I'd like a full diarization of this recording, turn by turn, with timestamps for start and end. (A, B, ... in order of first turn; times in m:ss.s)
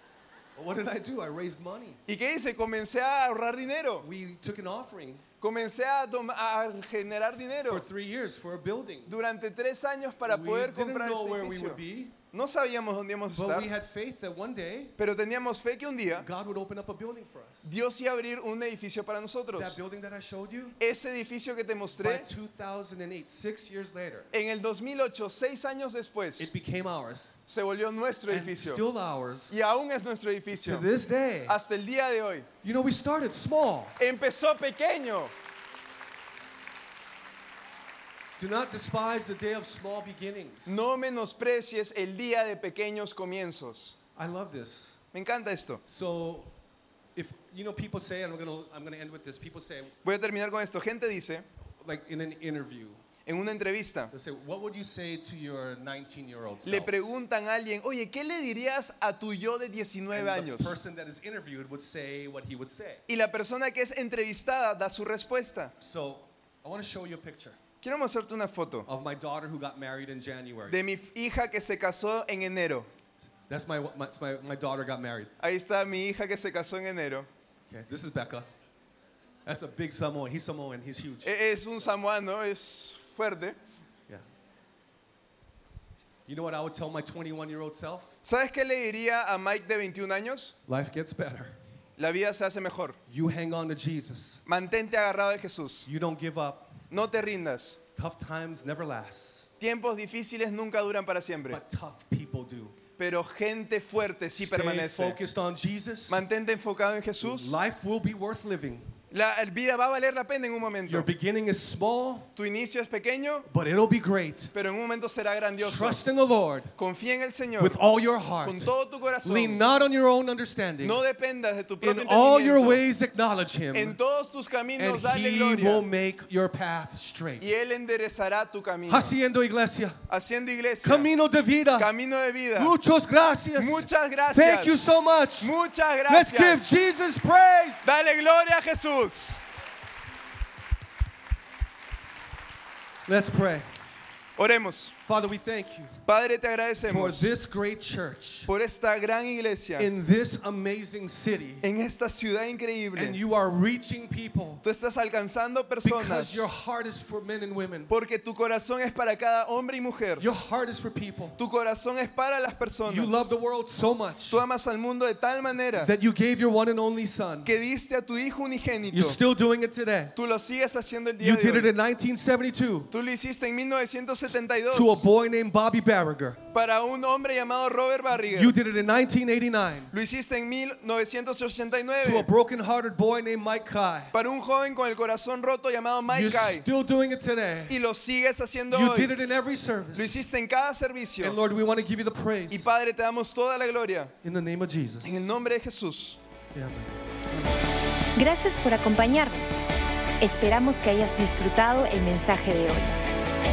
0:00.6-0:02.0 A
0:02.1-0:04.1 B
0:04.0-0:05.2 A
0:05.4-0:07.8 B
0:07.6-0:09.2 A
0:09.1-0:11.8 B
0:10.2-0:12.2 A
0:12.3-0:13.7 B
0:13.3-0:15.0 A
0:15.0-0:16.3 B
0:16.1-0:17.7 A
0:17.6-0:19.8 B
0:19.5-0:20.8 A
0:20.8-0:22.3 B
0:22.0-0:24.3 A
0:24.3-0:26.5 B
0:26.4-0:27.4 A
0:27.5-0:28.8 B
0:28.3-0:29.6 A
0:29.5-0:30.9 B
0:30.5-0:31.6 A
0:31.4-0:32.5 B
0:32.6-0:34.0 A
0:34.0-0:35.3 B
0:38.4-0:40.8 A
0:40.6-0:44.0 B
0:44.2-0:45.0 A
0:45.1-0:45.8 B
0:45.8-0:46.5 A
0:47.2-0:49.9 A
0:50.0-0:51.4 B
0:51.8-0:53.0 A
0:53.2-0:54.1 B
0:54.1-0:56.9 A
0:56.6-1:00.8 B
1:00.1-1:03.0 A
1:03.1-1:05.7 B
1:05.8-1:07.6 A
1:07.8-1:08.9 B
1:08.8-1:10.8 A
1:10.7-1:12.9 B
1:13.5-1:15.3 A
1:15.4-1:17.3 B
1:17.7-1:18.5 A
1:19.4-1:21.3 A
1:21.2-1:23.6 B
1:26.3-1:28.2 A
1:28.2-1:30.5 B
1:30.6-1:31.6 A
1:32.0-1:33.0 B
1:33.1-1:34.4 A
1:34.4-1:35.9 B
1:35.8-1:36.8 A
1:36.9-1:37.8 B
1:37.8-1:39.5 A
1:39.6-1:41.6 B
1:41.5-1:42.7 A
1:43.0-1:45.2 B
1:44.4-1:46.2 A
1:46.1-1:47.6 B
1:47.2-1:48.9 A
1:49.1-1:51.1 B
1:50.8-1:52.3 A
1:52.4-1:53.4 B
1:53.5-1:54.5 A
1:54.5-1:56.0 B
1:55.6-1:56.7 A
1:56.8-1:57.8 B
1:57.6-2:01.0 A
1:58.4-1:59.6 B
2:00.8-2:02.8 B
2:01.8-2:04.0 A
2:03.7-2:05.8 B
2:04.8-2:07.5 A
2:07.4-2:09.1 B
2:08.9-2:10.0 A
2:10.1-2:11.1 B
2:10.8-2:11.9 A
2:11.8-2:12.7 B
2:12.6-2:15.5 A
2:13.6-2:14.8 B
2:15.4-2:16.7 B
2:16.1-2:17.8 A
2:17.8-2:19.4 B
2:23.1-2:23.7 A
2:24.4-2:24.9 B
2:25.0-2:26.0 A
2:26.0-2:27.3 B
2:26.8-2:28.5 A
2:28.5-2:29.9 B
2:29.8-2:31.6 A
2:31.6-2:33.2 B
2:33.0-2:34.6 A
2:34.6-2:36.5 B
2:35.8-2:37.9 A
2:37.9-2:40.2 B
2:40.2-2:41.4 A
2:41.4-2:43.3 B
2:42.8-2:44.4 A
2:44.3-2:45.9 B
2:45.8-2:47.5 A
2:47.4-2:49.2 B
2:48.9-2:50.1 A
2:50.2-2:51.7 B
2:51.2-2:52.9 A
2:52.9-2:55.0 B
2:54.7-2:56.4 A
2:56.5-2:58.5 B
2:58.2-2:59.9 A
2:59.9-3:02.3 B
3:02.0-3:04.1 A
3:04.1-3:06.6 B
3:06.1-3:07.8 A
3:07.7-3:09.1 B
3:08.7-3:10.2 A
3:09.9-3:11.4 B
3:11.2-3:12.6 A
3:12.5-3:14.1 B
3:14.2-3:15.3 A
3:15.0-3:16.2 B
3:16.5-3:17.0 A
3:18.1-3:19.6 C
3:20.2-3:23.0 C